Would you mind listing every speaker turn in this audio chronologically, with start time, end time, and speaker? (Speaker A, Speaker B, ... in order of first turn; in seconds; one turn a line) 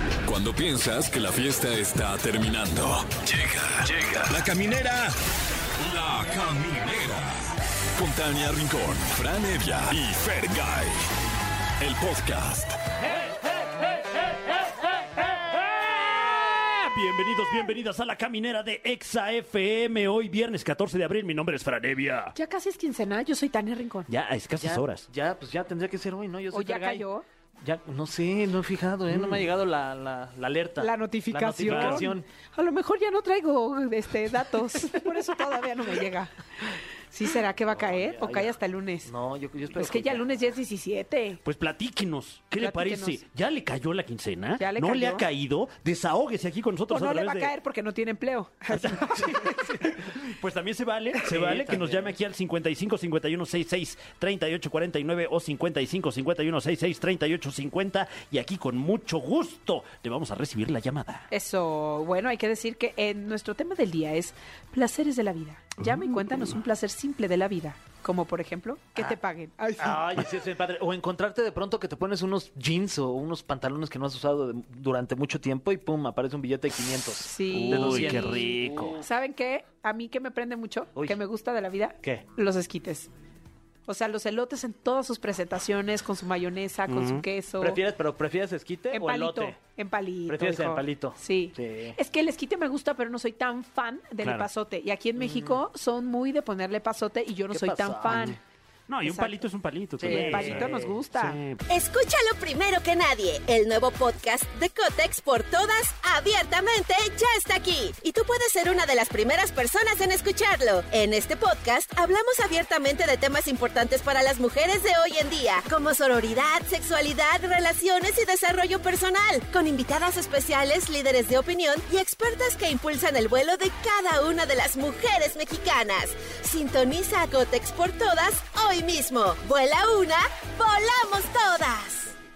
Speaker A: 0.2-5.2
Speaker A: 5.8-11.1
Speaker A: 11.8-12.8
Speaker B: 13.1-22.4
Speaker C: 22.4-24.1
Speaker B: 24.1-25.1
Speaker D: 24.6-27.1
Speaker C: 26.5-27.2
Speaker D: 27.6-32.2
Speaker B: 29.1-29.5
Speaker C: 30.8-36.3
Speaker B: 31.7-32.1
Speaker C: 37.1-39.1
Speaker D: 37.7-40.3
Speaker C: 39.7-41.4
Speaker B: 41.4-47.5
Speaker C: 42.6-43.2
Speaker C: 44.6-45.2
Speaker C: 46.9-49.8
Speaker B: 48.7-61.3
Speaker D: 49.3-50.0
Speaker D: 51.2-52.1
Speaker C: 61.3-70.2
Speaker B: 65.8-66.2
Speaker D: 69.8-79.0
Speaker C: 77.2-78.5
Speaker B: 77.5-79.0
Speaker C: 79.0-83.1
Speaker D: 81.0-81.2
Speaker C: 83.9-87.8
Speaker B: 86.9-87.3
Speaker D: 87.6-89.6
Speaker C: 88.9-98.4
Speaker D: 90.3-92.0
Speaker B: 94.2-94.5
Speaker D: 95.2-95.6
Speaker D: 97.5-98.3
Speaker B: 98.1-101.6
Speaker C: 99.0-99.5
Speaker D: 100.0-101.0
Speaker C: 100.0-101.4
Speaker E: 101.7-132.2